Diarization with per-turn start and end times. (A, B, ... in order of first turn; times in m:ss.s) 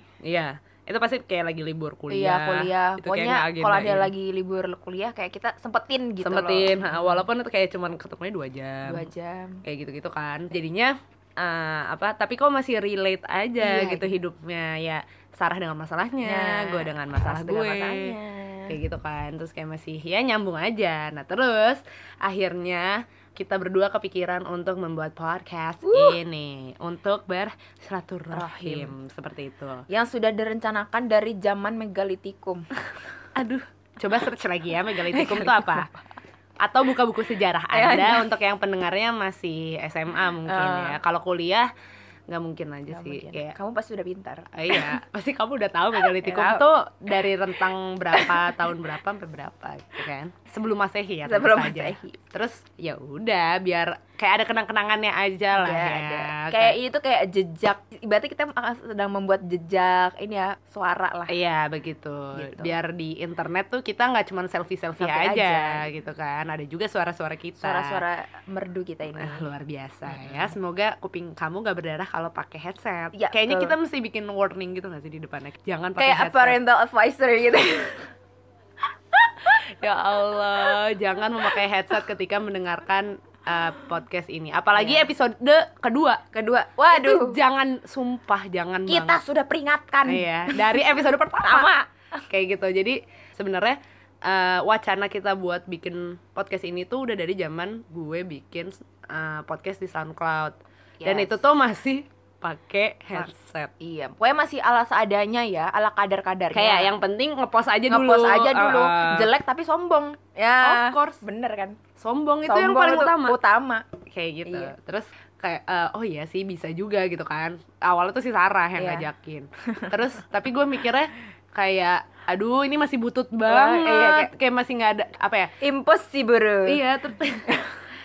0:00.2-0:04.1 A
0:02.1-0:07.2 B
0:06.2-0:09.1 A
0:08.8-0:09.6 B
0:09.6-0:18.1 A
0:13.6-0:14.1 B
0:16.2-0:18.8 B
0:18.7-0:29.8 A
0:25.8-0:26.2 B
0:28.3-0:28.9 B
0:29.9-0:32.6 B
0:33.4-0:35.9 A
0:35.1-0:35.9 B
0:36.6-0:41.7 A
0:37.7-0:38.3 B
0:40.4-0:41.0 B
0:42.3-0:43.5 A
0:42.9-0:45.0 B
0:44.5-0:56.8 A
0:46.0-0:46.7 B
0:48.1-0:48.4 B
0:51.2-0:52.2 B
0:55.5-1:01.4 B
1:01.3-1:08.0 A
1:02.4-1:02.7 B
1:05.0-1:05.8 B
1:07.6-1:09.5 B
1:09.2-1:16.6 A
1:10.1-1:10.5 B
1:13.1-1:13.8 B
1:16.0-1:18.1 B
1:19.8-1:26.2 A
1:24.8-1:25.1 B
1:26.3-1:27.4 B
1:26.9-1:29.2 A
1:28.9-1:31.9 B
1:30.0-1:31.7 A
1:32.3-1:43.7 A
1:41.0-1:41.4 B
1:43.8-1:46.9 B
1:46.5-1:49.3 A
1:47.9-1:51.8 B
1:50.6-1:51.2 A
1:52.0-1:53.4 A
1:52.4-1:53.8 B
1:54.1-2:05.5 A
1:54.4-1:54.7 B
1:58.8-1:59.0 B
2:03.4-2:04.3 B
2:05.6-2:06.8 B
2:06.6-2:07.6 A